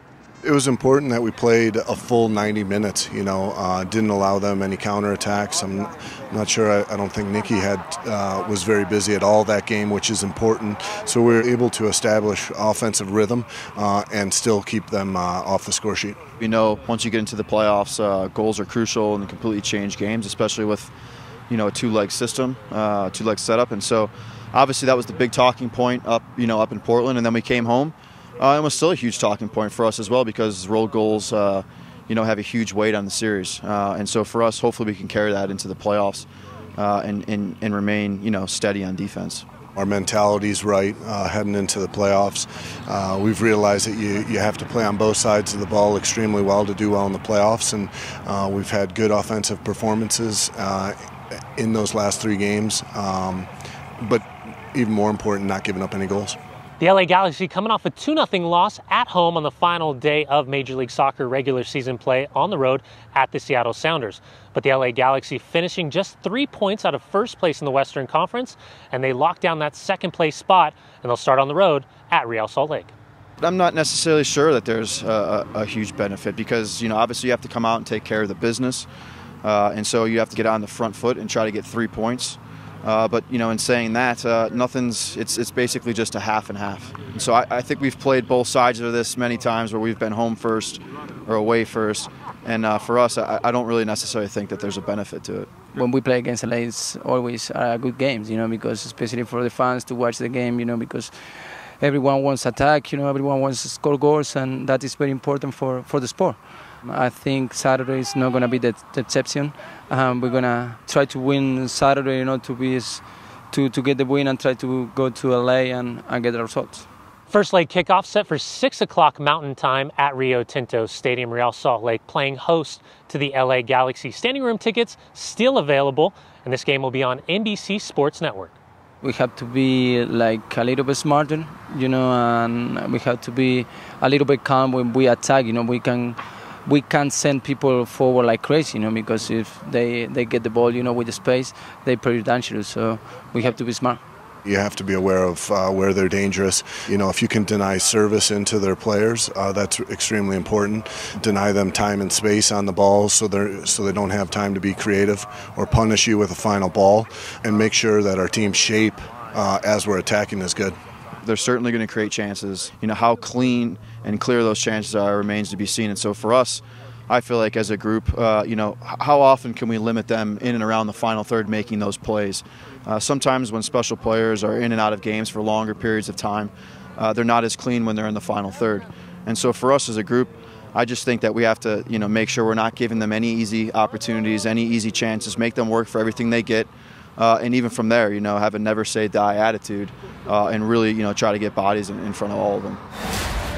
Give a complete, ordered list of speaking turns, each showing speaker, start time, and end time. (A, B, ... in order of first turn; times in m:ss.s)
0:00.4-0:16.2 A
0:16.4-0:20.9 B
0:21.5-0:39.5 B
0:39.8-0:51.0 A
0:51.6-0:56.4 A
0:56.8-1:12.9 C
1:13.4-1:18.9 B
1:19.4-1:35.5 B
1:35.7-1:41.2 D
1:41.8-1:56.9 D
1:57.3-2:08.6 C
2:09.0-2:24.0 D
2:24.4-2:40.8 A
2:41.2-3:12.8 B